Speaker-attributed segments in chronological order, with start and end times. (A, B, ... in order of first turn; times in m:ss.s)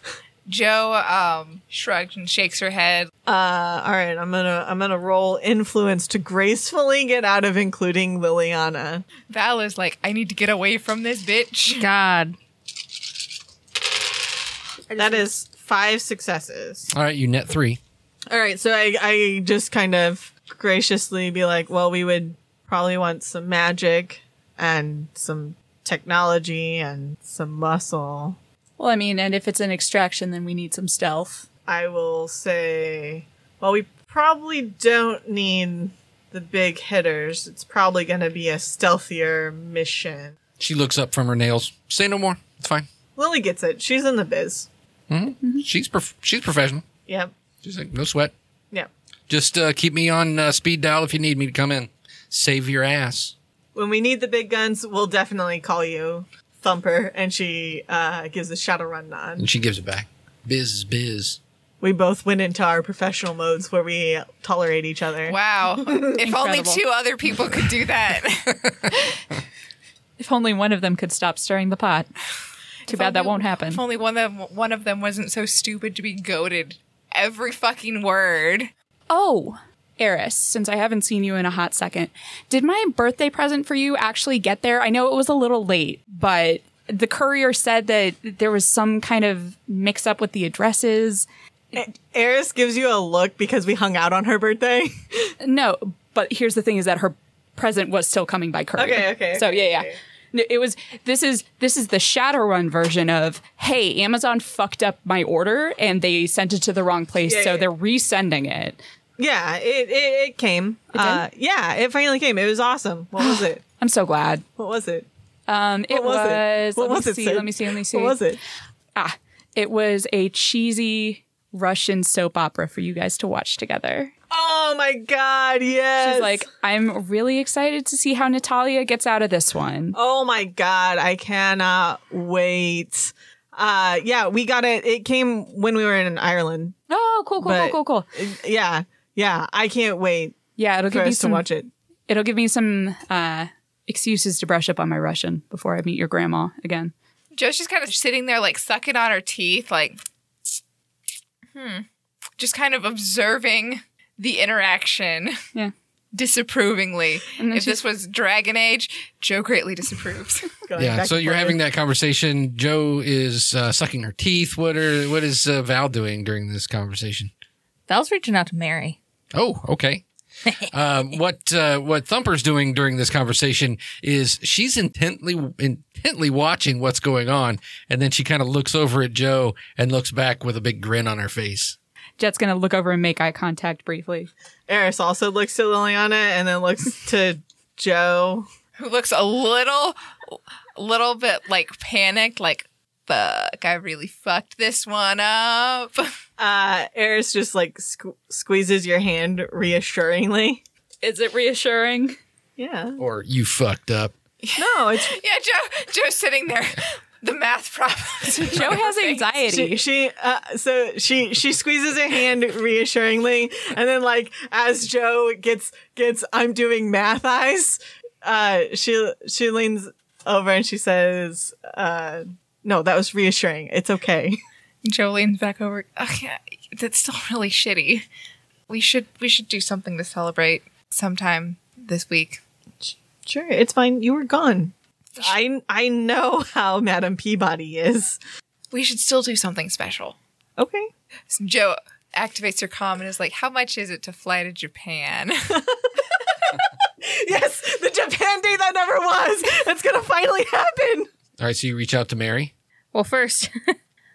0:00.5-0:03.1 A
0:03.3-0:09.1 B
0:09.3-0:11.9 A
0:11.8-0:12.4 C
0:14.9-0:16.9 B
0:16.9-0:17.8 D
0:18.3-0:28.4 B
0:28.8-0:31.5 E
0:31.7-0:40.4 B
0:40.6-0:42.9 D
0:43.2-0:44.7 B
0:45.1-0:46.8 D
0:47.1-0:47.3 B
0:47.6-0:48.3 D
0:49.3-0:53.3 D
0:53.8-0:59.5 B
0:59.4-1:01.4 D
1:01.8-1:05.4 B
1:05.3-1:08.7 A
1:06.2-1:06.8 E
1:10.2-1:12.1 E
1:12.9-1:13.8 E
1:12.9-1:18.7 A
1:19.1-1:31.3 E
1:31.8-1:35.4 B
1:35.4-1:48.8 E
1:38.8-1:40.0 B
1:47.3-1:47.7 B
1:49.2-1:53.6 B
1:50.9-1:51.2 E
1:53.2-1:54.4 E
1:54.6-1:55.1 B
1:55.5-1:58.2 E
1:55.9-1:58.4 B
1:59.0-2:04.1 E
2:04.3-2:06.4 B
2:06.0-2:10.0 E
2:09.9-2:16.8 B
2:16.9-2:18.1 E
2:17.4-2:21.7 B
2:20.6-2:21.5 E
2:22.1-2:26.9 E
2:27.3-2:30.0 A
2:31.5-2:31.9 A
2:32.4-2:35.4 A
2:36.1-2:40.5 A
2:37.4-2:37.8 E
2:40.7-2:41.6 B
2:40.8-2:47.3 D
2:47.9-2:49.0 C
2:49.3-2:50.0 D
2:50.7-3:01.8 D
3:02.2-3:04.3 E
3:04.7-3:08.5 B
3:08.8-3:16.1 A
3:16.4-3:20.6 B
3:21.0-3:22.2 E
3:22.6-3:23.0 B
3:23.0-3:24.1 D
3:24.4-3:29.3 A
3:24.6-3:25.2 B
3:28.4-3:29.9 E
3:29.5-3:44.4 B
3:44.8-3:48.1 A
3:48.7-3:52.4 A
3:52.8-3:58.2 B
3:58.7-4:00.2 A
4:00.6-4:00.9 B
4:01.3-4:05.6 A
4:05.5-4:11.1 B
4:11.4-4:12.5 D
4:12.9-4:13.7 C